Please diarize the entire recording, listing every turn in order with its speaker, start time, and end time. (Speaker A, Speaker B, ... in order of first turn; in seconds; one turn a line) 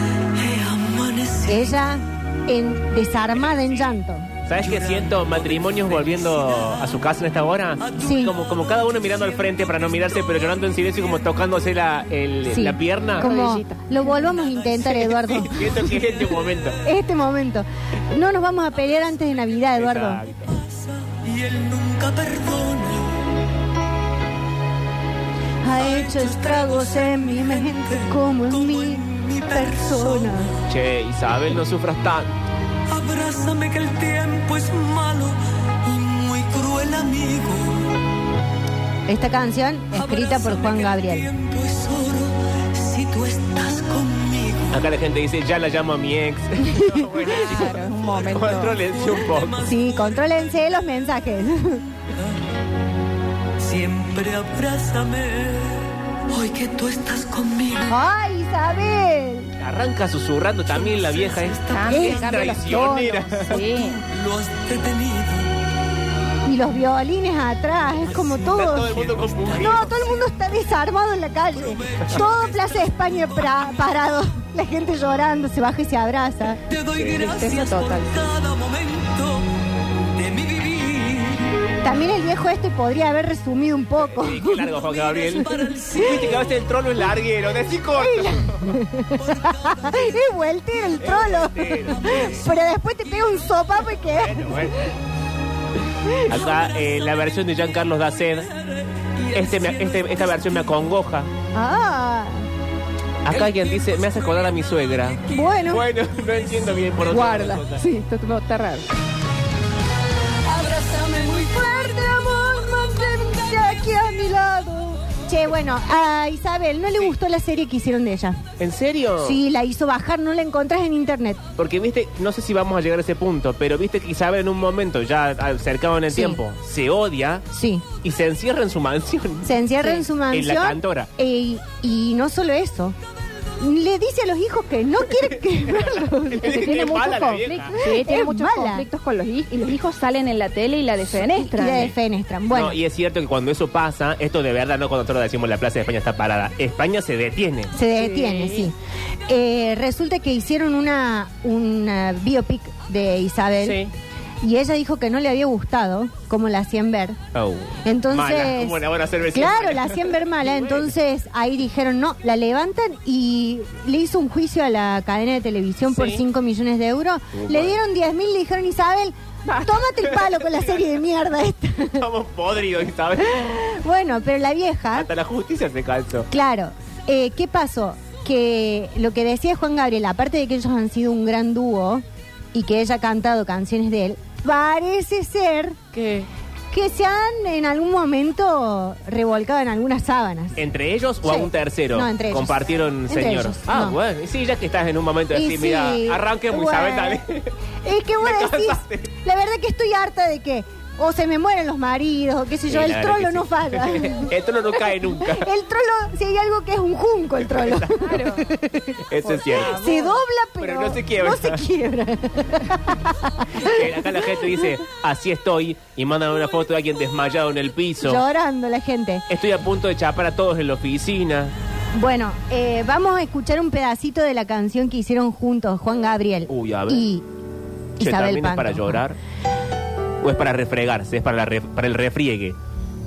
Speaker A: 0.3-1.8
Speaker B: 1.5-4.3
Speaker C: 3.3-4.0
Speaker C: 4.5-13.3
Speaker A: 4.6-6.9
Speaker A: 7.8-8.3
Speaker B: 8.0-8.3
Speaker B: 12.5-15.9
Speaker D: 13.2-14.2
Speaker C: 15.3-16.8
Speaker A: 15.9-16.7
Speaker B: 16.8-20.2
Speaker C: 19.8-20.6
Speaker A: 20.5-23.2
Speaker B: 25.6-30.5
Speaker A: 25.7-30.6
Speaker C: 30.7-32.3
Speaker A: 32.9-37.9
Speaker B: 39.1-41.3
Speaker A: 39.9-44.8
Speaker C: 44.7-49.6
Speaker D: 47.2-48.8
Speaker A: 48.8-50.7
Speaker B: 49.6-51.8
Speaker A: 53.6-58.0
Speaker B: 57.9-59.5
Speaker C: 59.6-63.6
Speaker A: 60.7-62.5
Speaker D: 61.7-64.0
Speaker A: 63.5-65.5
Speaker B: 66.5-69.0
Speaker A: 68.1-70.3
Speaker C: 68.5-69.9
Speaker B: 69.6-76.6
Speaker A: 71.7-73.2
Speaker A: 76.7-79.5
Speaker C: 76.9-77.2
Speaker D: 77.1-78.3
Speaker A: 80.2-81.8
Speaker B: 81.8-84.7
Speaker C: 84.0-88.8
Speaker A: 84.8-86.6
Speaker B: 88.0-94.9
Speaker A: 89.2-90.2
Speaker C: 91.0-92.5
Speaker C: 94.1-94.8
Speaker B: 96.1-96.4
Speaker C: 96.2-98.5
Speaker A: 99.2-100.2
Speaker C: 99.3-101.3
Speaker B: 101.5-102.5
Speaker C: 103.2-107.8
Speaker A: 103.4-103.7
Speaker B: 105.3-105.9
Speaker D: 107.1-108.9
Speaker B: 110.5-118.4
Speaker C: 118.6-119.4
Speaker B: 119.2-121.4
Speaker C: 121.6-127.5
Speaker B: 126.1-126.4
Speaker B: 127.5-127.8
Speaker C: 128.0-131.1
Speaker B: 129.4-133.0
Speaker B: 133.6-136.7
Speaker C: 135.7-137.8
Speaker D: 136.4-141.9
Speaker B: 137.8-138.8
Speaker B: 141.2-142.8
Speaker C: 142.5-147.7
Speaker B: 147.7-148.7
Speaker D: 148.0-148.7
Speaker B: 149.3-153.8
Speaker C: 153.6-153.9
Speaker B: 154.4-157.2
Speaker C: 157.3-160.9
Speaker B: 157.8-172.1
Speaker C: 165.9-166.2
Speaker C: 167.3-167.8
Speaker D: 169.5-169.9
Speaker C: 172.0-173.5
Speaker B: 173.3-175.1
Speaker C: 174.9-176.3
Speaker B: 176.3-185.8
Speaker C: 185.9-186.3
Speaker B: 186.7-190.6
Speaker C: 190.6-197.5
Speaker B: 191.2-194.0
Speaker B: 195.3-197.2
Speaker B: 197.8-204.3
Speaker C: 198.2-199.1
Speaker C: 202.7-205.5
Speaker B: 204.8-209.0
Speaker C: 207.4-208.2
Speaker D: 208.0-208.5
Speaker C: 209.1-209.8
Speaker D: 209.3-210.2
Speaker B: 209.7-214.3
Speaker C: 210.6-211.6
Speaker C: 213.6-218.2
Speaker B: 218.0-219.3
Speaker C: 219.3-221.5
Speaker B: 221.9-227.2
Speaker C: 226.5-227.1
Speaker B: 228.0-229.0
Speaker C: 228.0-229.2
Speaker C: 230.2-232.6